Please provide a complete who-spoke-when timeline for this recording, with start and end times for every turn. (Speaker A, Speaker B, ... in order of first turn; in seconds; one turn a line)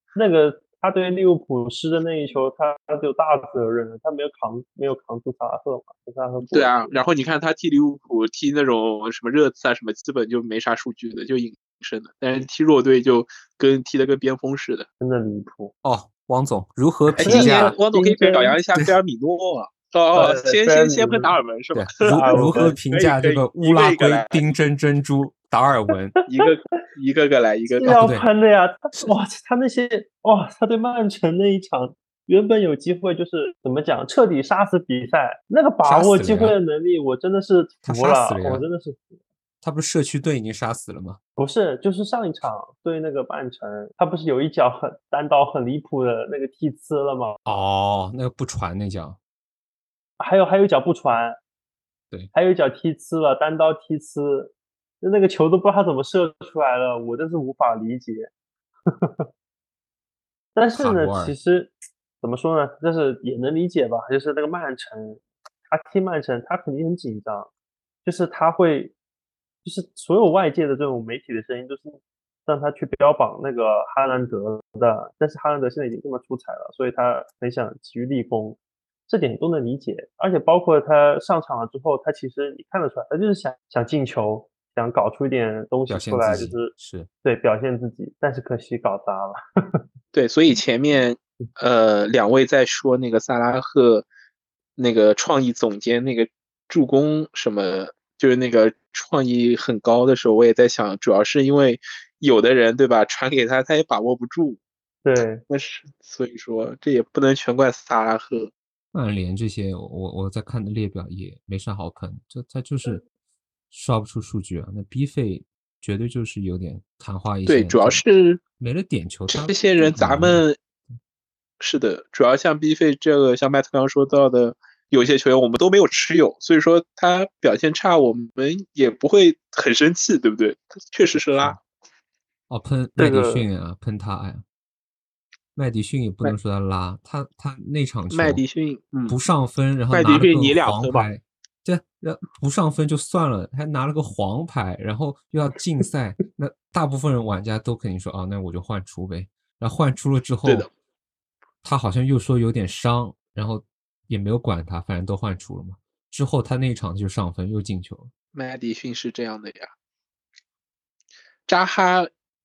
Speaker A: 0.1-6.9
Speaker B: 6.4-14.9
Speaker A: 15.0-15.7
Speaker C: 15.8-17.7
Speaker B: 17.2-24.4
Speaker A: 17.2-18.6
Speaker A: 20.1-21.3
Speaker C: 21.7-26.1
Speaker A: 22.0-22.8
Speaker B: 26.3-28.1
Speaker A: 27.8-39.0
Speaker C: 27.8-28.2
Speaker C: 35.8-36.5
Speaker C: 37.8-38.6
Speaker C: 39.6-41.2
Speaker A: 41.4-47.4
Speaker C: 47.4-49.2
Speaker A: 50.2-51.4
Speaker A: 52.3-58.3
Speaker A: 60.5-67.5
Speaker C: 60.7-61.3
Speaker A: 68.0-68.9
Speaker A: 69.6-89.8
Speaker C: 85.9-87.1
Speaker B: 90.1-94.0
Speaker B: 94.8-104.6
Speaker A: 105.0-105.4
Speaker B: 105.5-108.5
Speaker C: 108.9-113.0
Speaker C: 113.7-118.0
Speaker B: 117.5-118.4
Speaker C: 118.6-120.4
Speaker B: 119.3-120.6
Speaker B: 121.6-131.6
Speaker C: 131.1-131.6
Speaker C: 132.5-134.4
Speaker A: 133.0-133.5
Speaker C: 135.5-138.4
Speaker B: 138.1-139.2
Speaker C: 139.1-150.7
Speaker B: 139.9-141.1
Speaker B: 150.4-150.7
Speaker C: 151.6-158.1
Speaker B: 158.3-159.7
Speaker B: 161.5-162.1